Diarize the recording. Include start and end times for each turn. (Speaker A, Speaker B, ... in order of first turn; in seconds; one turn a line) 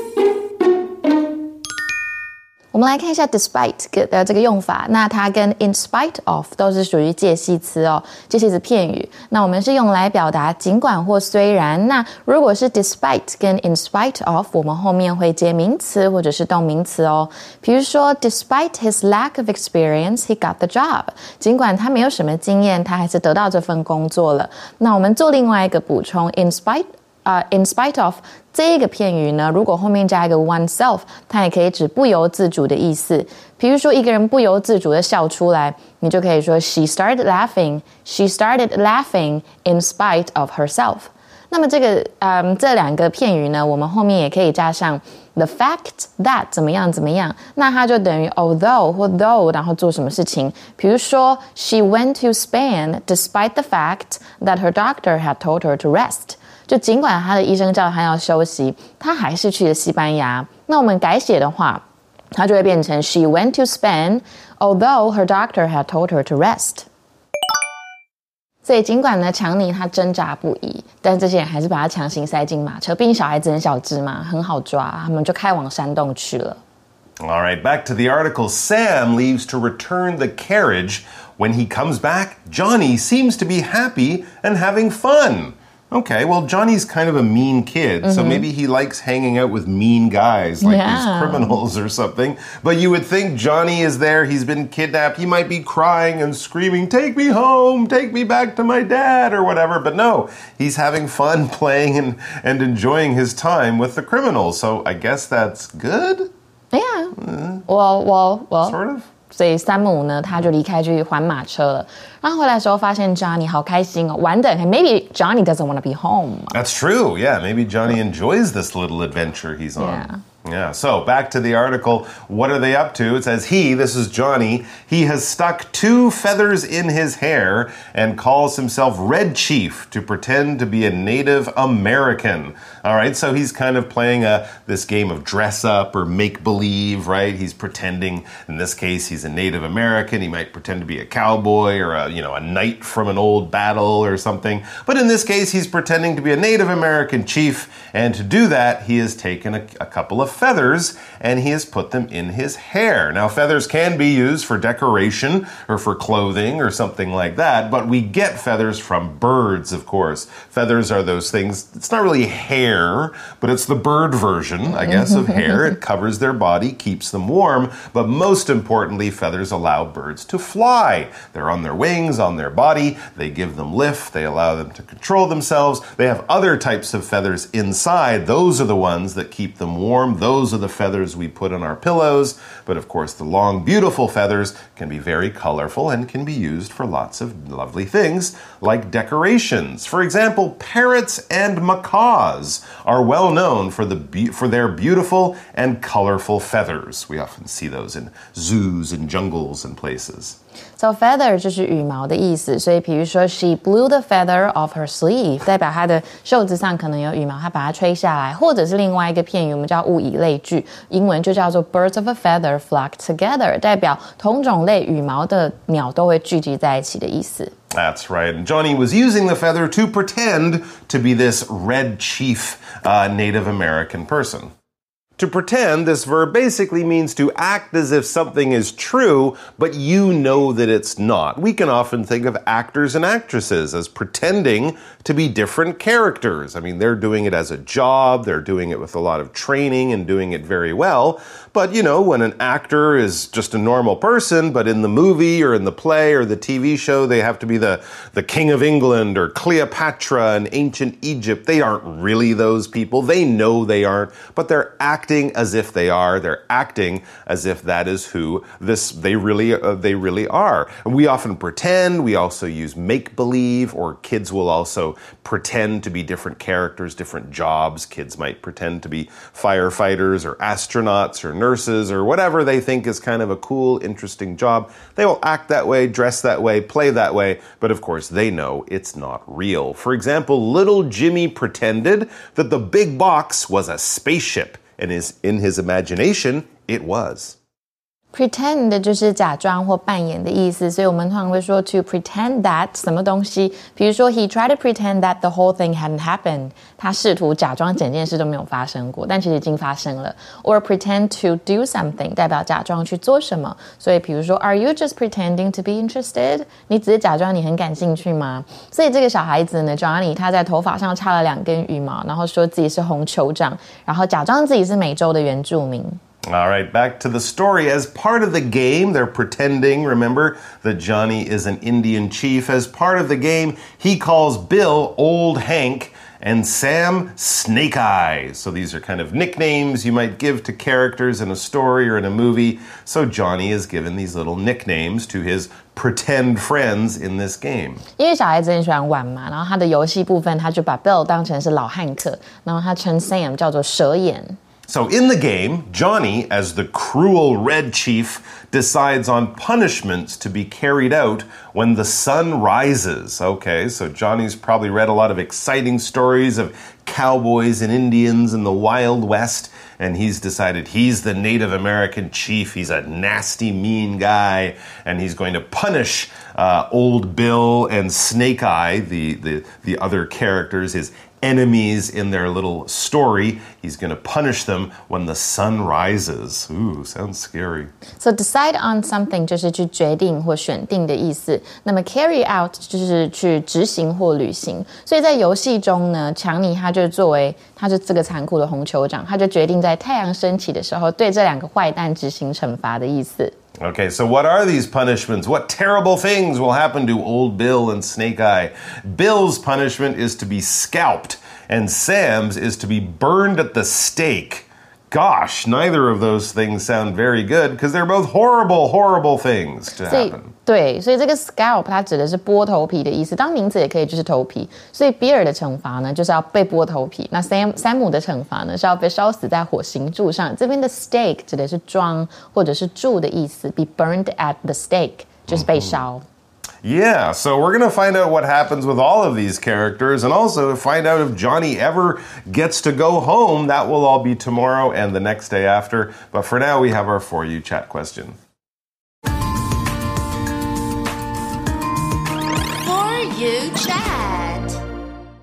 Speaker A: 2.7-66.9
Speaker A: 68.6-76.6
Speaker B: 77.2-106.3
Speaker A: 88.0-88.5
Speaker A: 90.6-91.6
Speaker A: 106.7-108.8
Speaker B: 107.2-107.7
Speaker B: 108.7-109.1
Speaker A: 109.3-116.6
Speaker B: 116.5-200.4
Speaker A: 119.8-120.2
Speaker A: 164.7-165.8
Speaker A: 200.8-217.5
Speaker B: 217.7-224.5
Speaker B: 225.2-287.4
Speaker A: 288.1-316.0
Speaker B: 316.3-337.8
Speaker A: 338.0-344.4
Speaker B: 344.7-377.7
Speaker A: 378.0-393.4
Speaker B: 393.6-410.3
Speaker A: 409.9-426.1
Speaker B: 425.3-425.8
Speaker B: 426.6-438.2
Speaker C: 442.6-444.6